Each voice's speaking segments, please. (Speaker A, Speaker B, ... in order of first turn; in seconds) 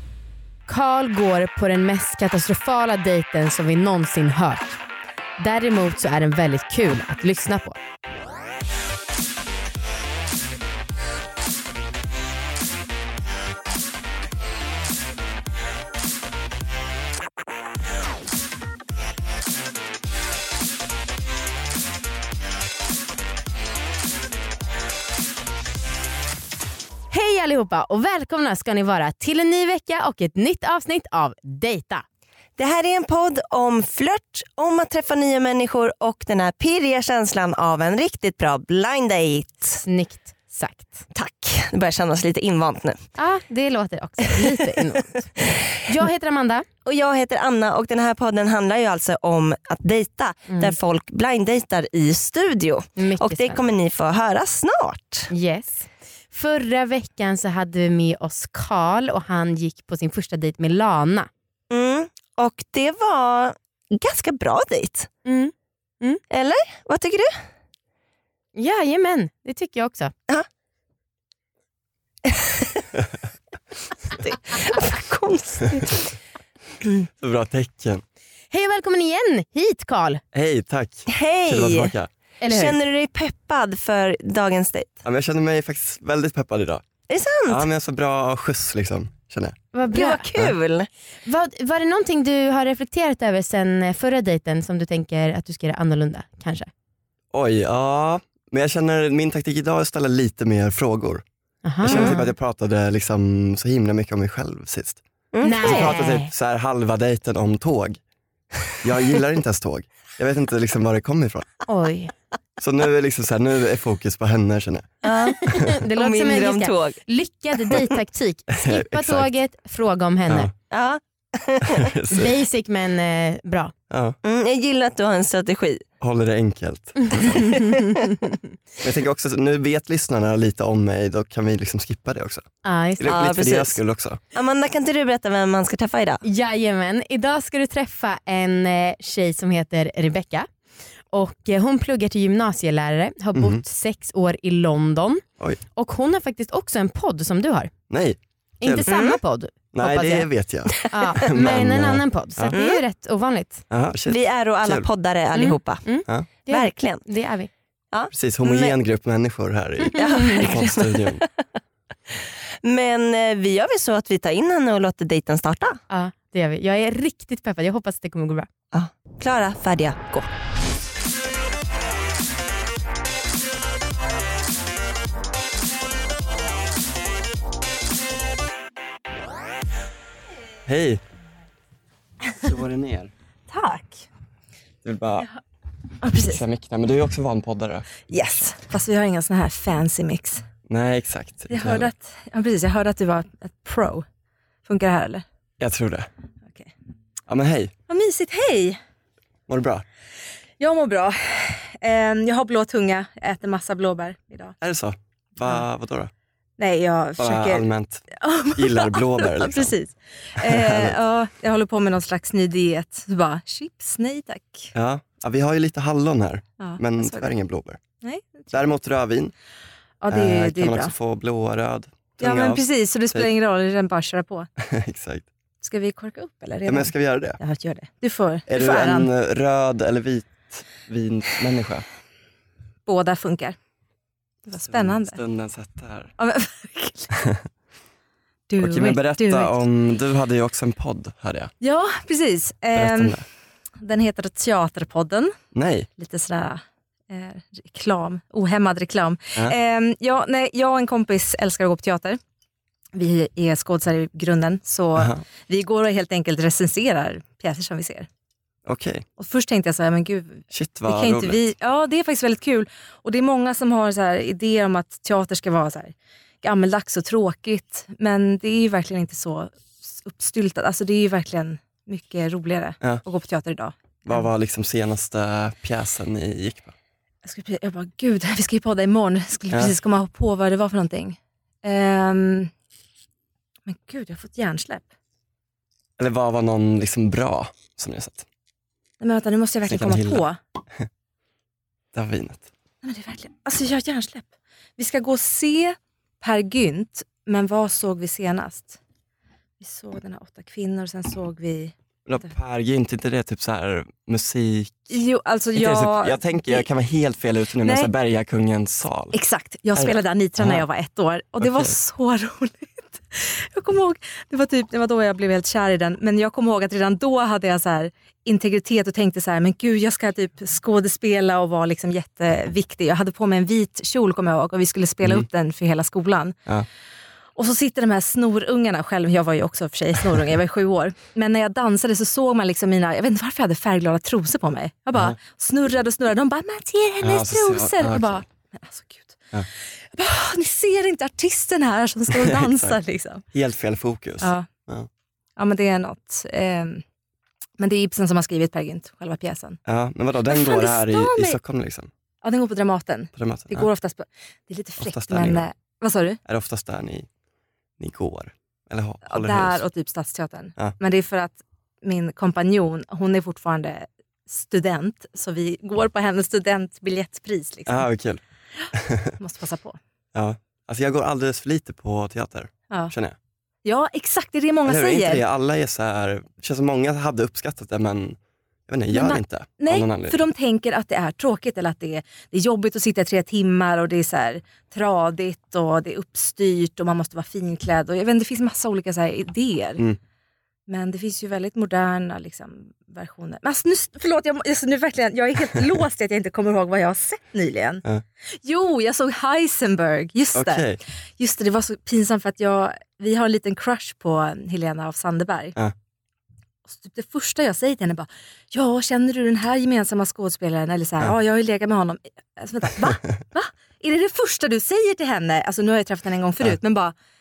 Speaker A: 0.7-4.8, 5.4-7.8, 27.1-32.0, 39.8-41.1, 43.2-45.3, 45.8-46.7, 50.5-50.8, 53.0-53.6, 55.3-61.3, 65.2-66.2, 68.5-70.1, 78.5-80.2, 82.4-82.8, 89.7-90.3, 91.3-96.7, 101.6-102.3, 105.4-106.3, 111.7-112.1, 115.3-120.5, 122.1-123.7, 127.2-128.3, 132.6-133.2, 136.2-140.5, 141.1-145.2, 145.8-147.7, 148.6-150.3, 150.9-153.6, 155.3-157.5, 165.9-168.5
Speaker B: 32.6-39.8, 41.1-43.0, 46.9-55.3, 61.7-65.1, 66.3-67.3, 72.2-72.8, 74.3-76.2, 81.1-81.9, 82.5-85.0, 87.1-87.6, 89.9-90.9, 101.9-102.2, 105.3-106.0, 115.0-115.4, 116.0-117.0, 120.7-121.9, 124.2-125.8, 127.3-127.9, 133.1-133.8, 134.3-136.2, 148.9-149.2, 152.5-152.8, 154.1-155.8, 156.5-157.1, 157.9-158.8, 159.9-161.3, 162.6-165.8, 168.7-170.3
Speaker C: 77.2-78.0, 80.3-82.1, 85.0-86.8, 87.5-89.6, 97.3-101.2, 101.8-105.0, 105.5-108.0, 108.7-111.5, 112.6-115.0, 118.6-119.3, 120.3-120.5, 121.6-122.3, 123.9-124.2, 126.0-127.5, 128.8-134.2, 143.3-143.6, 147.9-148.9, 149.7-152.5, 153.7-154.9, 158.1-161.2, 180.7-181.0, 182.3-183.1, 184.8-185.3, 186.2-187.9, 190.7-191.9, 195.6-196.1, 197.3-197.7, 199.5-199.8, 204.6-206.1, 207.2-208.0, 208.6-209.8, 210.4-211.0, 214.8-217.8, 218.5-219.3, 220.1-223.3, 224.6-225.3, 226.7-227.4, 228.5-231.9, 234.7-236.1, 238.6-241.5, 242.7-243.2, 245.5-245.9, 255.0-255.2, 258.7-259.1, 260.5-261.4, 274.1-276.8, 286.0-288.3, 289.7-290.2, 291.9-292.5, 302.1-305.0, 305.5-309.2, 309.8-310.6, 311.4-311.8, 337.0-338.2, 342.1-342.8, 343.3-344.9, 349.7-351.9, 353.2-353.7, 354.8-355.5, 356.3-357.1, 357.8-359.6, 367.7-368.2, 368.7-369.1, 370.1-373.2, 374.7-380.2, 400.3-400.8
Speaker D: 183.5-184.1, 186.0-186.4, 188.1-190.4, 191.5-194.1, 194.7-195.2, 197.9-198.8, 200.6-204.6, 206.6-214.7, 216.6-217.3, 218.0-218.6, 220.0-220.9, 222.2-224.5, 225.6-229.1, 232.9-233.6, 234.5-235.2, 236.2-237.2, 238.5-239.6, 241.6-243.2, 243.8-245.3, 246.0-252.2, 252.9-258.1, 259.2-274.3, 277.2-282.5, 283.7-284.9, 289.0-290.4, 292.8-298.8, 299.6-301.7, 304.9-306.7, 307.6-307.9, 309.1-326.4, 327.4-339.2, 339.9-343.2, 344.2-344.5, 345.4-346.8, 347.6-349.6, 350.3-351.4, 352.2-356.2, 359.1-367.9, 369.2-369.8, 373.6-375.2, 378.9-389.8, 390.7-397.8, 398.4-400.7, 401.2-405.6, 406.7-416.9